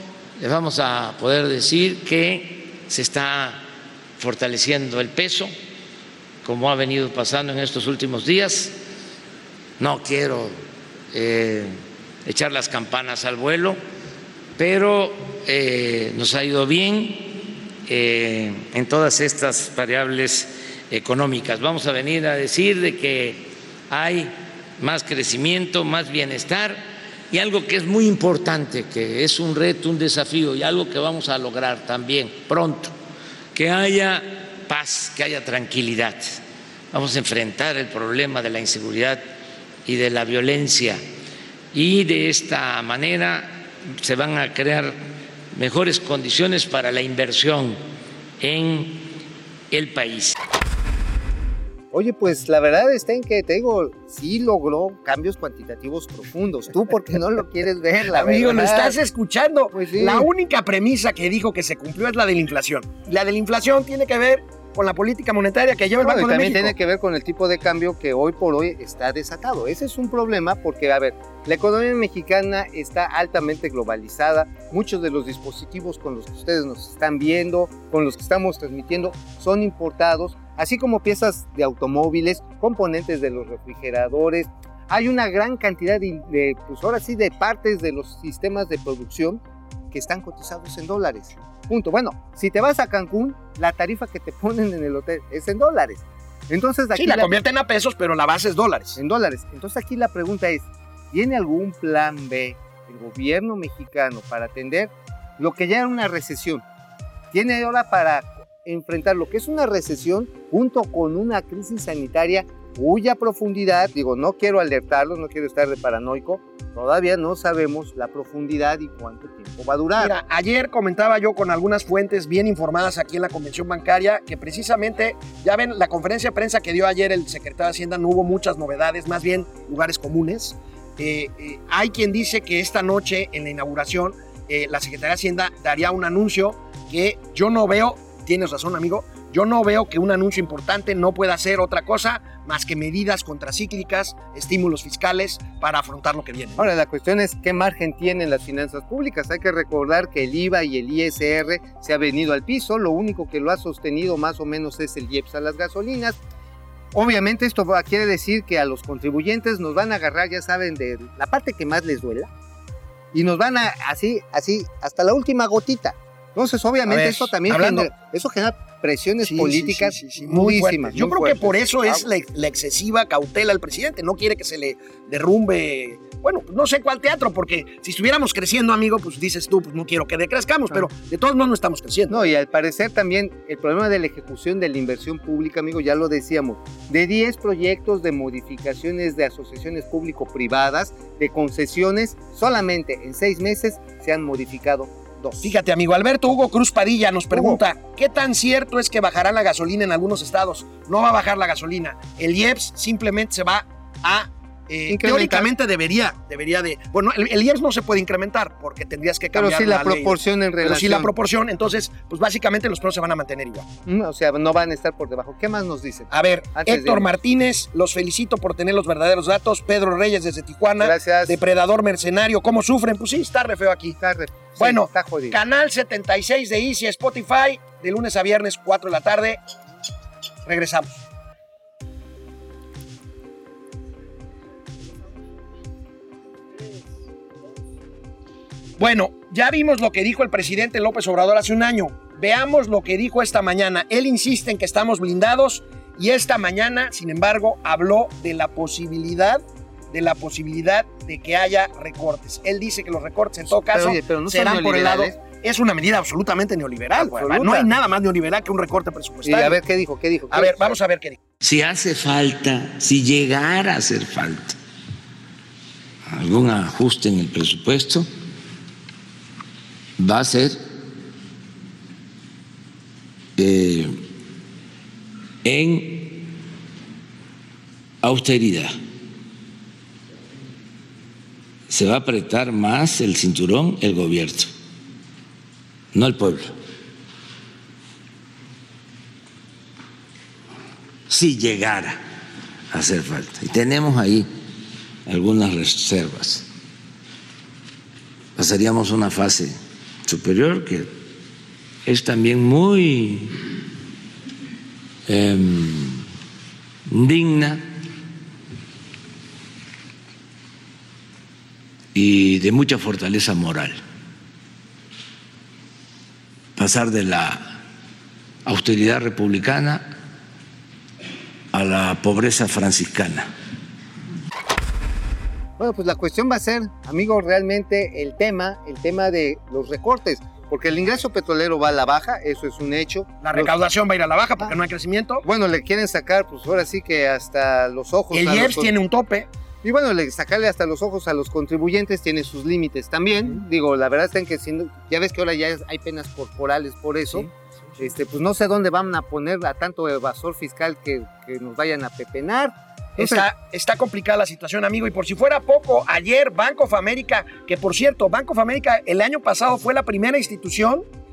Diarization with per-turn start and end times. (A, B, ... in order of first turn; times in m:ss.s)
0:00.4-0:03.6 A
0:04.2-0:05.5 A
0:06.4-0:08.7 A
0:09.8-0:10.5 A
0:11.1-0:13.8 A
0:14.6-0:32.9 A
0:33.5-0:36.4 A
0:36.9-0:39.2 A
0:39.8-0:41.0 A
0:41.7-0:45.0 A
0:45.5-0:47.8 A
0:48.4-0:49.1 A
0:49.7-0:50.3 A
0:51.9-0:59.0 B
0:58.1-1:06.8 C
0:59.7-1:00.3 B
1:06.0-1:37.3 B
1:36.9-1:39.0 C
1:39.0-1:46.6 B
1:47.3-2:00.1 B
2:00.0-2:26.6 C
2:26.6-2:36.2 B
2:36.9-2:42.3 B
2:43.1-2:52.0 B
2:46.9-2:47.9 C
2:49.2-3:02.3 C
3:02.1-3:15.4 B
3:15.4-3:33.6 C
3:17.3-3:17.6 B
3:24.9-3:25.5 B
3:29.3-3:31.1 B
3:33.8-3:37.1 B
3:36.1-3:44.0 C
3:40.8-3:41.4 B
3:44.0-3:45.4 B
3:44.6-3:49.4 C
3:50.4-3:51.0 C
3:58.8-4:19.6 C
4:13.5-4:15.2 B
4:16.9-4:17.7 B
4:19.2-4:20.7 B
4:20.3-4:21.2 C
4:21.4-4:24.6 A
4:26.1-4:28.1 A
4:30.0-4:30.6 A
4:33.4-4:34.0 A
4:35.4-4:36.3 A
4:38.0-4:38.7 A
4:41.7-4:44.5 A
4:45.9-4:46.5 A
4:51.1-4:52.0 A
4:52.7-4:54.3 A
4:55.0-4:56.4 A
4:58.4-4:59.5 A
5:00.0-5:00.9 A
5:01.8-5:03.4 A
5:05.1-5:06.0 A
5:06.9-5:07.6 A
5:11.9-5:13.8 A
5:16.6-5:17.6 A
5:18.4-5:19.9 A
5:21.5-5:23.3 A
5:25.6-5:33.5 B
5:33.2-5:35.2 C
5:35.2-5:38.7 B
5:38.1-5:39.3 C
5:39.6-5:53.3 B
5:53.0-6:00.8 C